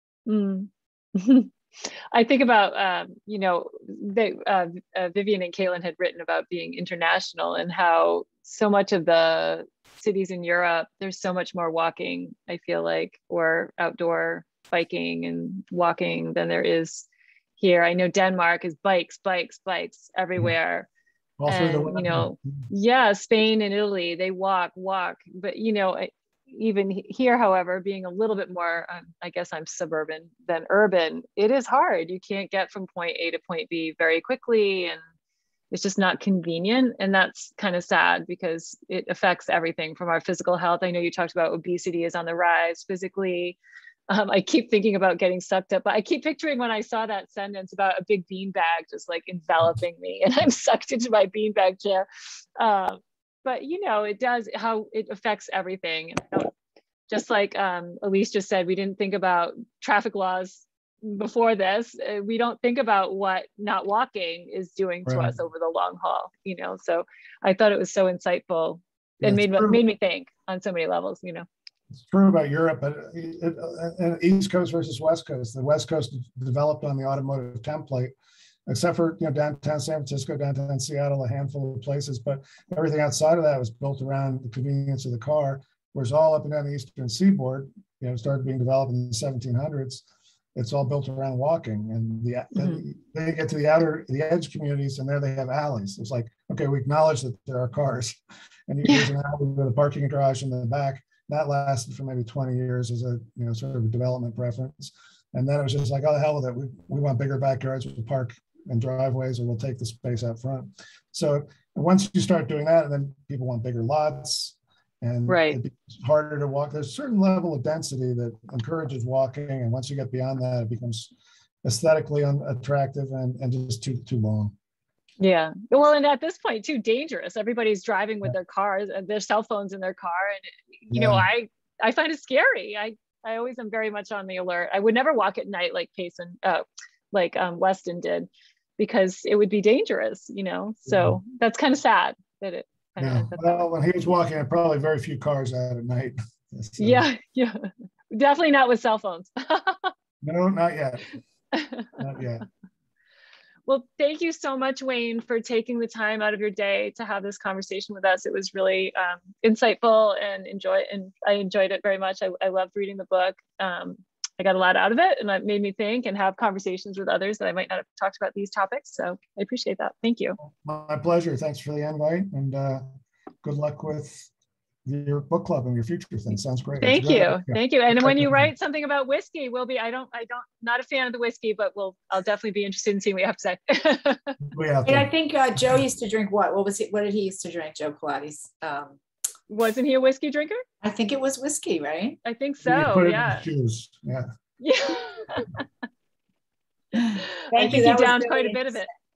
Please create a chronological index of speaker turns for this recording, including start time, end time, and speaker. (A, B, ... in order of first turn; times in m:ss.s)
0:00.3-0:17.1 A
0:17.6-0:20.9 A
0:21.4-0:22.7 B
0:21.5-0:35.0 A
0:35.7-0:43.6 A
0:44.1-0:56.5 A
0:57.1-1:11.4 A
1:05.0-1:05.3 B
1:09.2-1:09.8 B
1:12.0-1:18.1 B
1:18.7-2:01.1 B
1:55.3-1:55.6 A
2:01.6-2:04.5 B
2:05.2-2:23.6 A
2:10.9-2:11.3 B
2:20.9-2:21.2 B
2:23.0-2:27.0 B
2:26.8-2:29.9 A
2:30.2-2:31.0 B
2:31.5-2:32.0 A
2:32.0-2:32.4 B
2:33.7-2:50.4 A
2:50.4-2:52.8 B
2:53.4-2:54.3 B
2:54.8-2:58.5 B
2:56.8-3:04.4 A
3:04.4-3:05.1 B
3:04.9-3:09.0 C
3:09.5-3:10.6 A
3:10.8-3:12.2 C
3:12.2-3:13.4 A
3:12.6-3:14.2 B
3:14.6-3:15.6 A
3:16.9-3:18.8 C
3:17.1-3:18.9 A